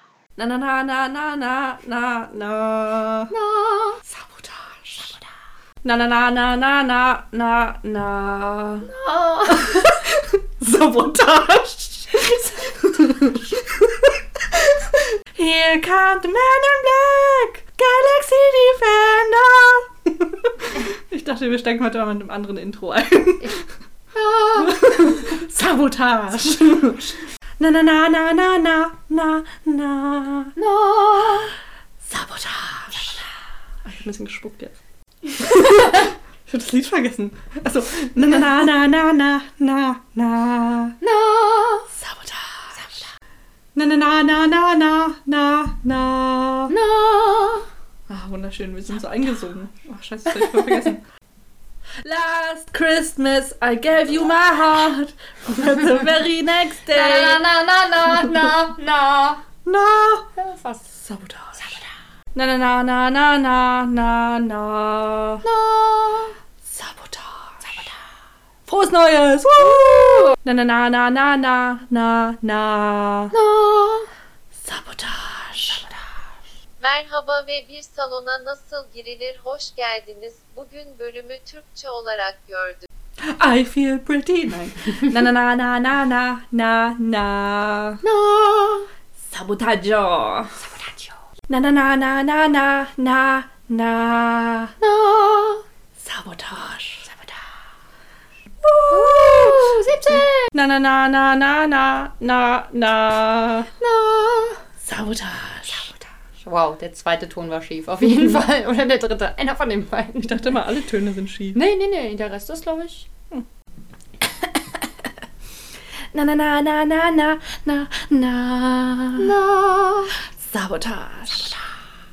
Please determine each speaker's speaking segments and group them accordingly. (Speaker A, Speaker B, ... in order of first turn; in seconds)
Speaker A: 0.4-3.3, 4.0-5.2, 5.8-8.9, 9.5-14.8, 15.3-23.6, 24.6-30.5, 32.0-33.2, 33.8-41.0, 41.9-43.0, 43.8-46.7, 48.1-51.0, 52.0-57.4, 58.2-58.5, 59.7-60.3, 60.9-61.8, 62.3-65.4, 66.6-67.9, 68.7-73.3, 74.5-75.8, 83.2-88.0, 89.2-90.5, 91.5-94.7, 96.0-97.1, 98.6-99.7, 100.5-103.7, 104.8-105.9, 110.2-111.6, 116.1-119.3, 120.4-121.5
Speaker B: 3.3-4.0, 8.9-10.0, 24.1-24.8, 30.6-31.5, 41.0-41.9, 46.7-47.6, 50.5-50.8, 56.9-59.4, 60.4-60.9, 61.6-61.8, 65.4-66.3, 73.3-74.1, 88.0-88.9, 90.6-91.1, 94.8-95.6, 98.9-100.5, 103.8-104.6, 105.7-110.6, 111.5-113.1, 119.2-120.2
Speaker C: 76.8-82.9